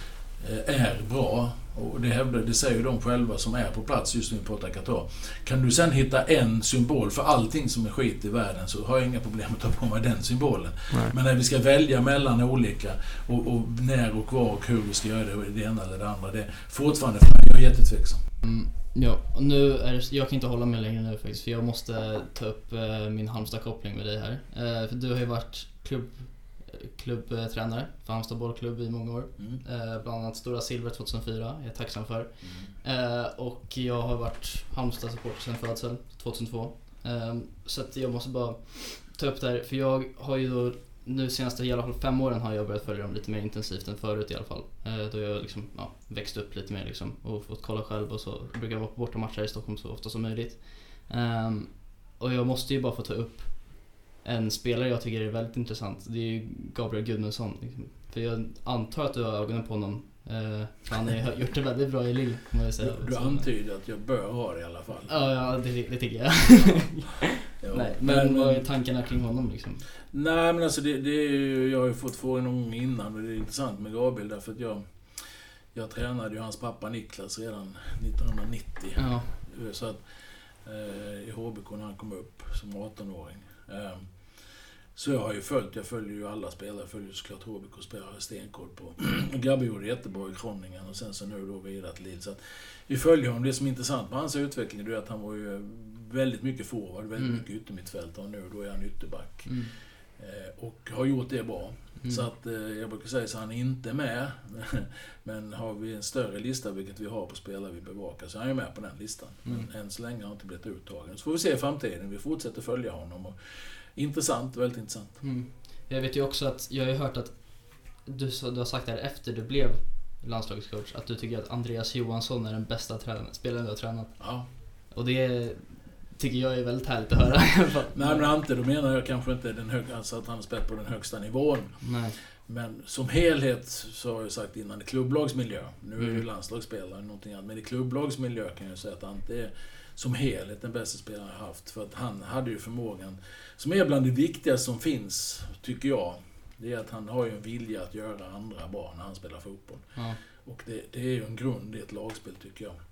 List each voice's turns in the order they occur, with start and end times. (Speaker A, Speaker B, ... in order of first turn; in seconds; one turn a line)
Speaker A: 0.4-18.2
Speaker B: 18.4-63.5
Speaker A: 29.4-29.6
Speaker A: 32.4-32.7
Speaker A: 62.8-65.2
Speaker B: 65.1-69.8
Speaker A: 67.6-68.7
Speaker A: 70.1-80.0
Speaker B: 79.0-79.3
Speaker A: 80.6-84.2
Speaker A: 85.0-99.6
Speaker B: 97.2-97.4
Speaker B: 99.5-99.7
Speaker A: 100.2-113.3
Speaker A: 114.0-115.2
Speaker B: 115.2-128.3
Speaker A: 124.2-124.5
Speaker A: 127.9-152.8
Speaker B: 131.8-132.2
Speaker B: 149.9-150.2